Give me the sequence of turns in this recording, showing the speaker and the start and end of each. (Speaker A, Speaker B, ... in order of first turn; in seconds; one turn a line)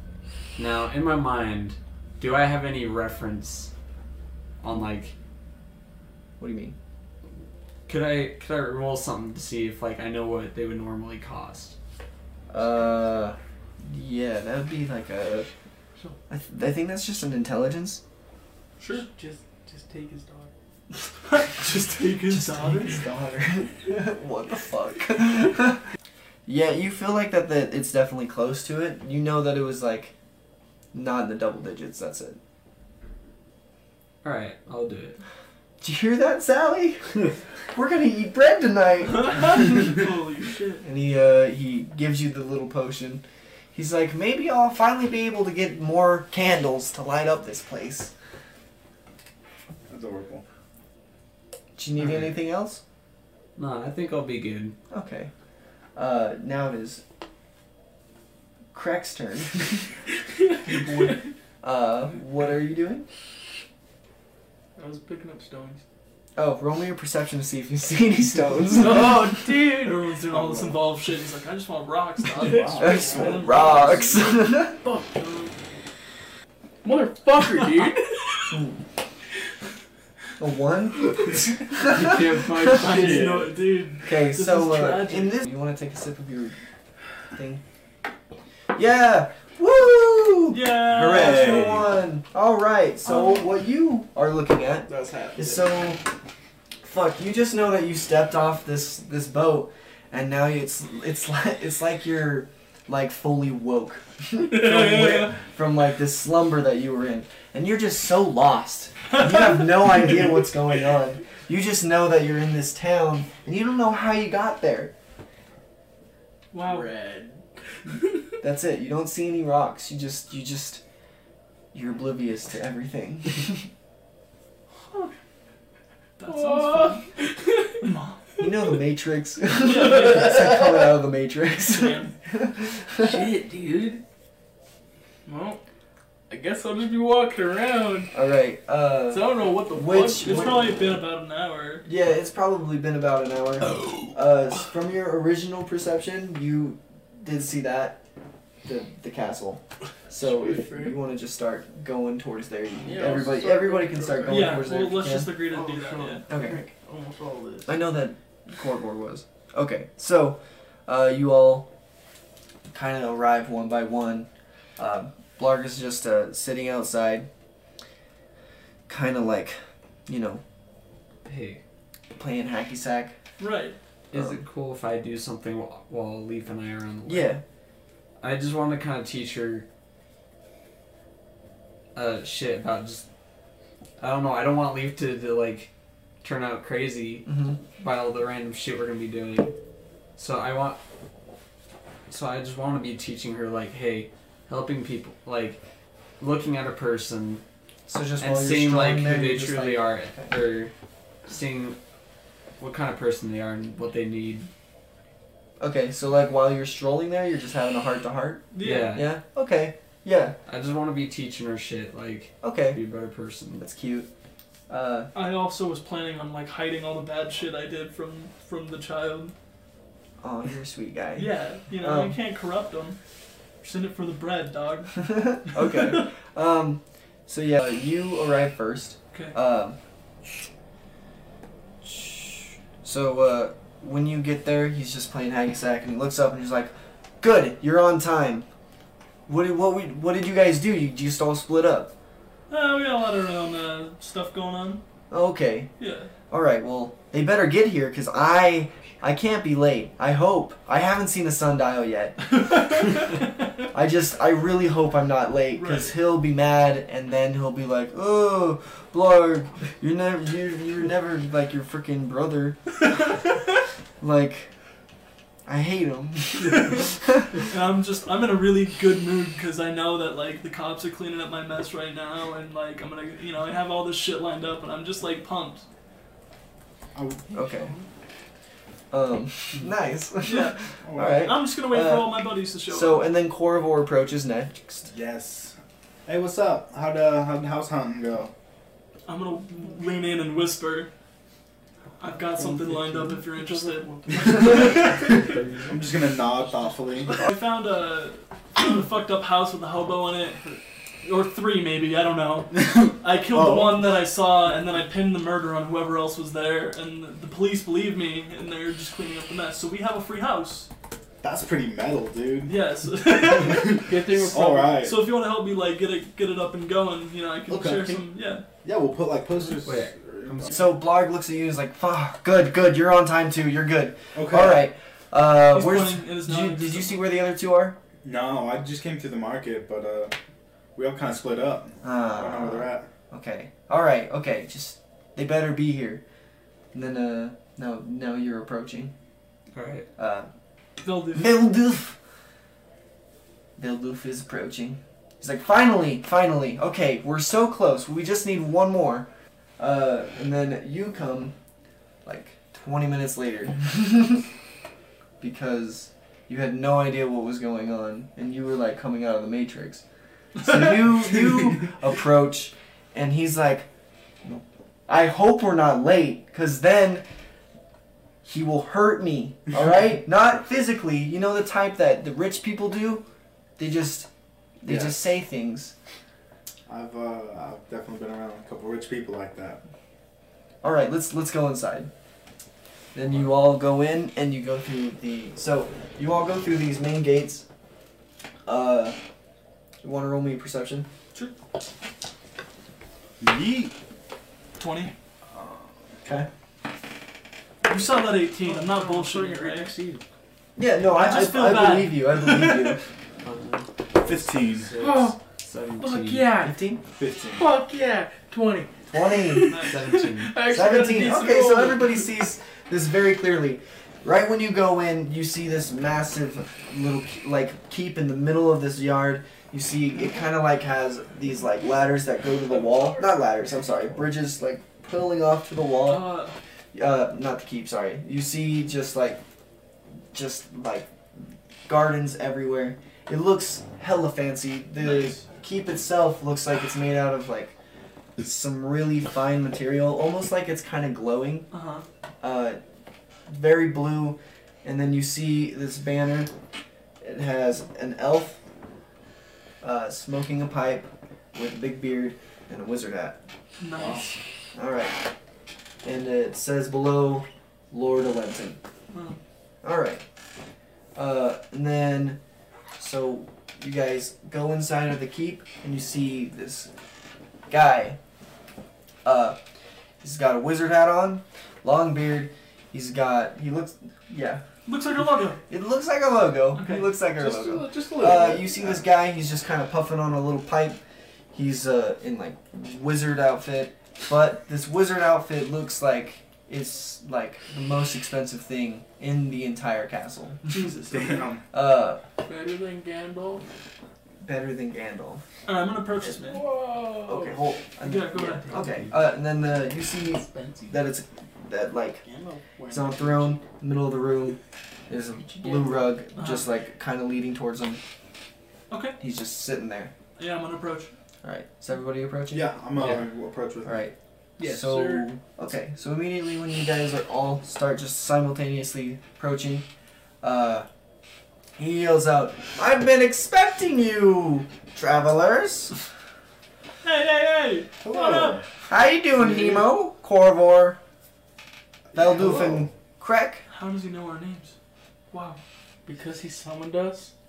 Speaker A: 0.6-3.7
Speaker A: 4.6-5.2
Speaker B: 6.4-6.8
Speaker A: 7.9-11.8
Speaker B: 12.5-15.5
Speaker B: 16.3-18.0
Speaker C: 18.8-19.1
Speaker D: 18.9-20.5
Speaker C: 21.2-23.1
Speaker B: 22.3-25.8
Speaker B: 26.5-30.1
Speaker B: 30.9-32.4
Speaker A: 34.2-35.2
Speaker B: 35.8-37.2
Speaker B: 37.7-39.9
Speaker C: 39.1-40.8
Speaker B: 40.8-48.1
Speaker E: 49.9-50.4
Speaker B: 51.8-52.8
Speaker A: 52.0-52.4
Speaker A: 53.6-54.8
Speaker B: 54.9-55.3
Speaker B: 56.0-57.0
Speaker B: 58.7-59.8
Speaker D: 60.7-61.2
Speaker B: 61.6-63.1
Speaker D: 64.8-65.8
Speaker B: 66.4-69.2
Speaker D: 68.7-70.1
Speaker C: 68.8-74.4
Speaker E: 70.3-70.7
Speaker E: 72.4-73.4
Speaker D: 72.4-73.7
Speaker B: 72.8-74.8
Speaker D: 74.8-75.5
Speaker D: 76.8-78.5
Speaker C: 77.5-77.9
Speaker B: 78.5-78.8
Speaker B: 80.4-83.2
Speaker D: 81.8-83.5
Speaker A: 82.0-82.8
Speaker C: 82.7-85.4
Speaker B: 84.0-86.6
Speaker B: 87.3-87.6
Speaker B: 88.8-96.1
Speaker C: 90.5-91.9
Speaker E: 90.9-91.9
Speaker E: 93.1-93.4
Speaker D: 94.9-95.7
Speaker B: 96.8-114.9
Speaker D: 104.5-105.3
Speaker C: 116.5-116.9
Speaker D: 116.6-117.4
Speaker B: 118.4-120.8
Speaker B: 121.7-123.7
Speaker C: 126.2-127.0
Speaker D: 126.3-127.9
Speaker C: 127.8-128.2
Speaker B: 128.4-133.2
Speaker C: 129.6-130.5
Speaker D: 129.7-130.7
Speaker C: 131.6-132.1
Speaker D: 133.0-134.0
Speaker D: 135.3-135.6
Speaker D: 136.3-138.1
Speaker B: 138.1-140.7
Speaker D: 139.1-140.8
Speaker C: 140.2-141.9
Speaker B: 141.8-148.0
Speaker B: 148.7-155.4
Speaker D: 150.2-151.0
Speaker D: 152.8-154.7
Speaker C: 154.3-156.2
Speaker D: 155.5-157.9
Speaker B: 156.3-156.7
Speaker B: 157.7-161.7
Speaker B: 162.7-167.3
Speaker B: 168.9-170.4
Speaker A: 171.2-171.6
Speaker B: 172.2-173.2
Speaker C: 173.4-173.8
Speaker A: 174.1-177.4
Speaker B: 174.1-174.4
Speaker B: 177.1-177.4
Speaker A: 178.2-179.7
Speaker A: 181.9-183.1
Speaker A: 184.0-185.7
Speaker A: 186.2-189.5
Speaker B: 187.3-187.6
Speaker A: 190.2-190.8
Speaker A: 192.1-195.6
Speaker A: 196.2-197.4
Speaker B: 197.9-200.3
Speaker A: 198.2-200.7
Speaker A: 201.3-201.8
Speaker A: 202.6-204.5
Speaker B: 205.6-210.4
Speaker C: 208.5-209.0
Speaker A: 208.6-209.2
Speaker A: 210.5-213.7
Speaker B: 212.4-212.8
Speaker B: 213.6-214.1
Speaker B: 214.7-215.1
Speaker C: 215.1-219.3
Speaker B: 220.2-222.2
Speaker C: 221.2-223.0
Speaker C: 223.6-226.1
Speaker B: 225.0-229.8
Speaker B: 231.8-238.5
Speaker B: 239.3-241.9
Speaker C: 242.5-244.8
Speaker B: 245.1-245.7
Speaker C: 245.8-246.1
Speaker B: 246.3-253.0
Speaker C: 252.5-253.1
Speaker B: 253.7-262.8
Speaker C: 255.6-255.9
Speaker B: 264.0-264.5
Speaker B: 265.5-267.3
Speaker C: 267.4-275.6
Speaker E: 276.9-277.4
Speaker B: 277.3-277.8
Speaker B: 278.9-284.9
Speaker C: 280.2-280.6
Speaker E: 280.8-281.3
Speaker C: 281.2-283.1
Speaker E: 284.9-288.3
Speaker C: 289.1-290.9
Speaker C: 292.0-295.1
Speaker D: 292.4-295.3
Speaker A: 294.8-295.9
Speaker E: 295.7-297.2
Speaker D: 296.4-297.2
Speaker C: 297.1-300.4
Speaker C: 301.0-310.7
Speaker E: 302.5-303.9
Speaker E: 311.2-312.5
Speaker C: 312.5-318.4
Speaker E: 313.1-315.1
Speaker D: 313.8-314.8
Speaker E: 317.5-318.1
Speaker E: 318.6-320.6
Speaker A: 319.6-320.6
Speaker B: 320.5-327.8
Speaker E: 324.1-324.7
Speaker C: 325.5-327.0
Speaker E: 328.0-330.1
Speaker E: 330.8-332.9
Speaker B: 331.8-336.0
Speaker B: 336.7-338.9
Speaker A: 339.5-339.9
Speaker B: 340.0-340.3
Speaker C: 340.8-341.5
Speaker B: 341.1-342.0
Speaker B: 343.6-351.3
Speaker B: 352.1-354.2
Speaker B: 355.2-359.8
Speaker B: 360.4-363.7
Speaker B: 364.2-367.1
Speaker B: 368.2-373.1
Speaker B: 373.6-374.1
Speaker B: 374.6-375.7
Speaker E: 374.7-375.0
Speaker E: 376.7-379.6
Speaker B: 380.6-381.9
Speaker B: 382.9-387.5
Speaker B: 388.5-389.0
Speaker B: 389.8-390.9
Speaker E: 393.2-393.8
Speaker C: 394.6-394.9
Speaker E: 395.3-395.7
Speaker C: 397.6-399.7
Speaker D: 398.4-400.0
Speaker B: 400.6-402.8
Speaker C: 400.9-402.8
Speaker A: 403.2-403.7
Speaker E: 404.0-404.7
Speaker A: 404.5-406.4
Speaker D: 404.8-405.2
Speaker D: 405.8-406.6
Speaker B: 406.4-406.8
Speaker E: 406.9-407.5
Speaker D: 407.4-412.1
Speaker B: 408.9-409.7
Speaker C: 409.5-409.9
Speaker A: 409.6-410.5
Speaker B: 410.5-426.1
Speaker C: 425.9-426.4
Speaker B: 426.7-429.2
Speaker B: 430.1-430.9
Speaker B: 431.7-437.5
Speaker C: 434.8-435.2
Speaker B: 438.2-441.5
Speaker C: 441.5-441.9
Speaker B: 442.2-442.6
Speaker B: 443.3-446.3
Speaker B: 447.0-448.4
Speaker B: 449.6-453.2
Speaker C: 453.6-454.1
Speaker E: 453.8-454.1
Speaker B: 454.6-455.0
Speaker B: 455.8-458.6
Speaker C: 458.9-459.2
Speaker B: 459.6-460.0
Speaker B: 460.9-462.2
Speaker B: 462.8-466.7
Speaker B: 467.5-468.0
Speaker B: 469.1-469.4
Speaker B: 470.0-474.4
Speaker C: 474.7-475.4
Speaker B: 475.3-480.8
Speaker C: 476.5-476.9
Speaker D: 477.1-478.8
Speaker B: 481.3-490.5
Speaker C: 490.5-491.3
Speaker E: 490.9-491.4
Speaker B: 491.5-492.0
Speaker D: 492.2-493.5
Speaker B: 494.2-495.2
Speaker C: 495.5-496.4
Speaker D: 496.2-497.4
Speaker B: 497.0-502.0
Speaker C: 497.8-498.5
Speaker A: 498.5-498.9
Speaker D: 500.1-500.9
Speaker D: 502.0-503.4
Speaker B: 502.7-507.8
Speaker D: 505.4-505.9
Speaker C: 506.2-506.5
Speaker C: 508.7-509.0
Speaker B: 509.0-509.9
Speaker C: 510.2-510.9
Speaker B: 511.2-512.6
Speaker E: 512.3-513.9
Speaker B: 513.6-519.7
Speaker D: 514.4-515.1
Speaker B: 520.2-520.7
Speaker B: 521.6-525.8
Speaker C: 526.8-528.5
Speaker E: 527.8-528.4
Speaker B: 528.7-530.8
Speaker D: 529.3-529.6
Speaker E: 531.9-532.7
Speaker B: 531.9-533.5
Speaker C: 533.5-534.5
Speaker C: 535.1-535.4
Speaker D: 535.9-537.1